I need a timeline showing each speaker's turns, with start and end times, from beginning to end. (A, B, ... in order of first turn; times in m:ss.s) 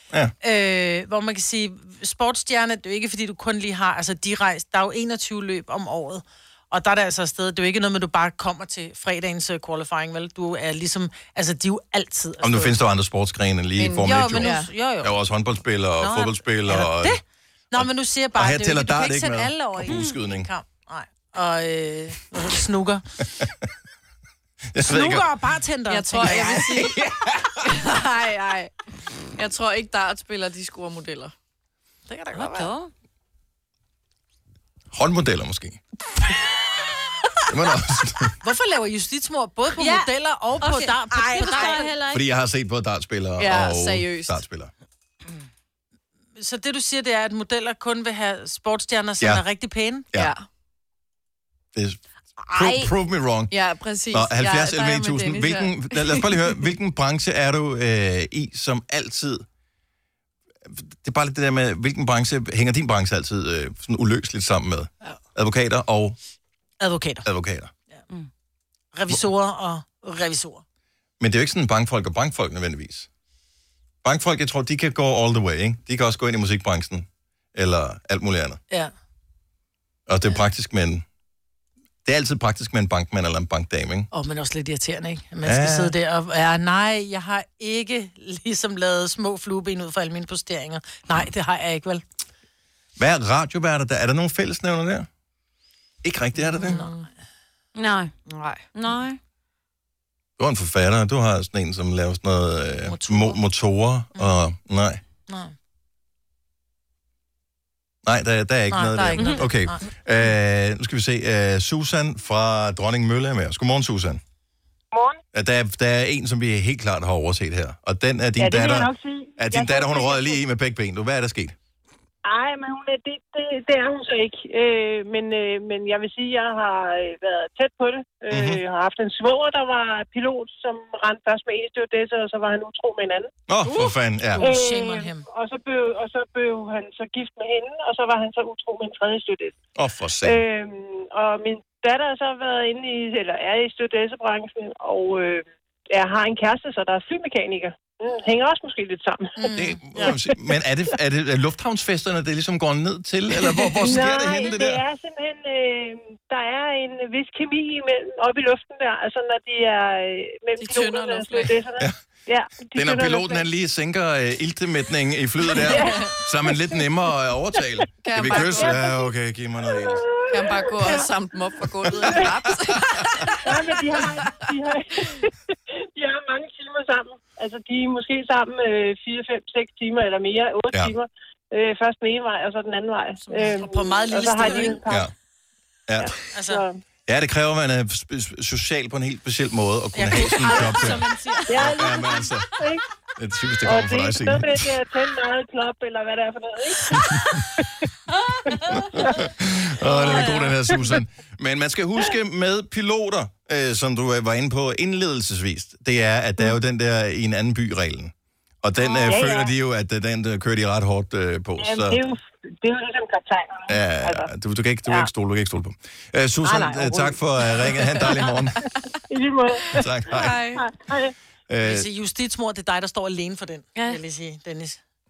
0:00.4-0:12.8 A
0:12.4-0:17.2 B
0:13.8-0:14.7 C
0:14.0-0:15.2 A
0:16.0-0:17.2 A
0:17.7-0:23.0 A
0:17.8-0:20.5 B
0:24.7-0:25.3 B
0:24.8-0:27.0 A
0:25.9-0:27.0 C
0:27.6-0:28.7 C
0:29.4-0:31.3 C
0:32.1-0:32.7 A
0:32.3-0:32.9 D
0:34.9-0:35.8 B
0:37.5-0:38.4 B
0:38.4-0:42.0 A
0:39.7-0:42.2 D
0:42.1-0:44.7 B
0:43.4-0:44.4 C
0:46.4-0:50.1 A
0:50.1-0:50.4 C
0:51.8-0:53.5 B
0:52.5-0:52.9 C
0:53.5-0:56.6 C
0:54.1-0:59.4 B
1:00.7-1:06.2 B
1:06.8-1:07.3 A
1:07.2-1:07.7 B
1:08.9-1:10.6 A
1:11.2-1:13.1 B
1:14.0-1:18.6 B
1:20.1-1:21.0 B
1:22.0-1:24.1 B
1:24.1-1:32.0 A
1:25.4-1:25.9 B
1:33.0-1:35.1 B
1:36.0-1:36.8 B
1:36.6-1:37.0 A
1:36.6-1:37.0 C
1:37.8-1:38.1 D
1:38.3-1:38.6 C
1:38.7-1:39.2 D
1:40.4-1:45.0 B
1:42.8-1:43.4 A
1:45.3-1:45.5 A
1:48.0-1:54.2 B
1:48.7-1:49.8 A
1:54.9-1:55.2 E
1:55.3-2:01.6 B
1:58.4-2:00.4 E
2:02.2-2:13.3 E
2:08.3-2:08.6 B
2:13.5-2:14.5 B
2:14.4-2:15.3 A
2:14.4-2:19.6 E
2:19.8-2:20.4 B
2:20.2-2:30.2 E
2:29.4-2:30.2 A
2:29.5-2:34.8 B
2:33.8-2:43.4 E
2:40.6-2:41.6 C
2:42.7-2:50.1 B
2:45.5-2:46.5 E
2:45.7-2:46.1 C
2:48.0-2:48.8 C
2:48.3-2:49.1 E
2:49.8-2:51.1 E
2:50.3-2:53.4 C
2:52.0-2:52.3 E
2:52.0-2:53.3 B
2:53.4-2:55.3 E
2:56.0-3:05.1 E
3:03.3-3:04.8 A
3:04.9-3:05.1 B
3:05.9-3:06.1 B
3:06.0-3:06.8 E
3:06.3-3:06.6 A
3:07.1-3:12.5 B
3:10.0-3:11.0 A
3:10.6-3:11.4 C
3:10.7-3:11.3 D
3:11.5-3:12.8 E
3:13.2-3:14.7 B
3:13.6-3:17.4 E
3:16.9-3:17.2 B
3:18.7-3:28.1 B
3:19.9-3:20.5 D
3:28.6-3:32.0 B
3:29.0-3:29.5 E
3:31.6-3:34.3 E
3:33.7-3:38.6 B
3:36.4-3:37.2 A
3:39.1-3:39.8 E
3:39.7-3:40.4 B
3:40.1-3:40.6 C
3:40.6-3:41.1 E
3:41.5-3:41.9 B
3:41.6-3:44.8 A